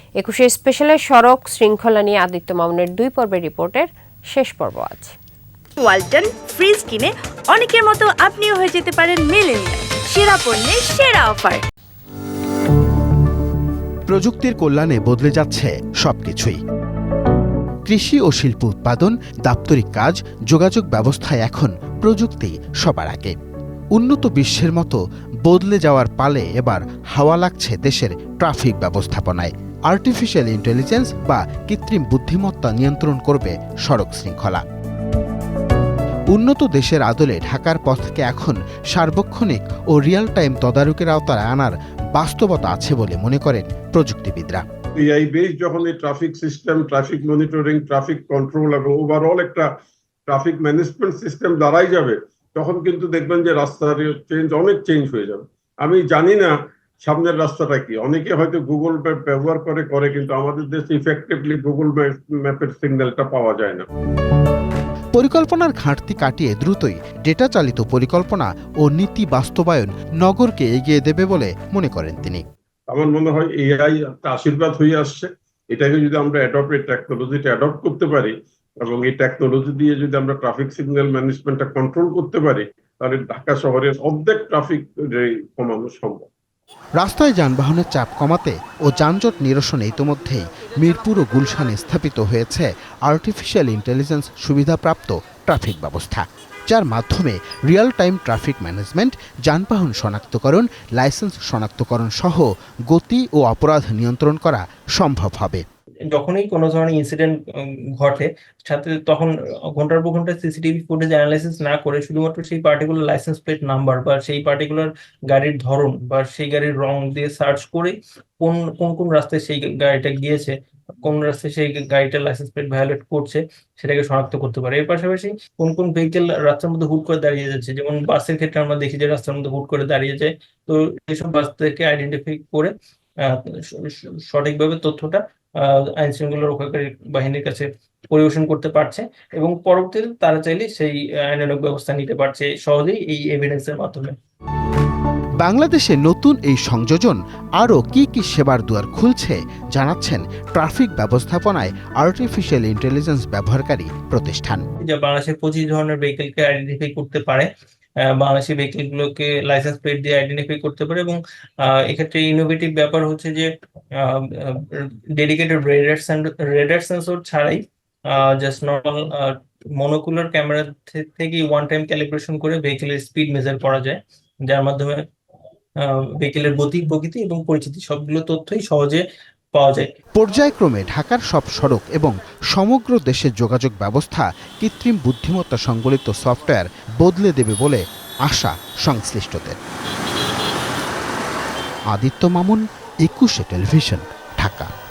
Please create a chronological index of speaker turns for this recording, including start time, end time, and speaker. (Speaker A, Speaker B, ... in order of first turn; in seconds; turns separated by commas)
Speaker A: 0.2-5.2, Speaker B: 5.8-11.6, Speaker C: 14.1-16.6, Speaker C: 17.9-23.4, Speaker C: 23.9-34.6, Speaker C: 36.3-44.6, Speaker D: 45.0-49.7, Speaker D: 50.3-56.5, Speaker D: 57.0-63.9, Speaker C: 65.2-72.4, Speaker D: 72.9-86.3, Speaker C: 87.0-105.6, Speaker E: 106.1-144.2, Speaker C: 145.4-154.6, Speaker E: 154.8-157.5, Speaker E: 158.1-175.0, Speaker E: 175.8-179.0, Speaker E: 179.6-179.9, Speaker C: 180.2-189.6, Speaker C: 191.9-194.7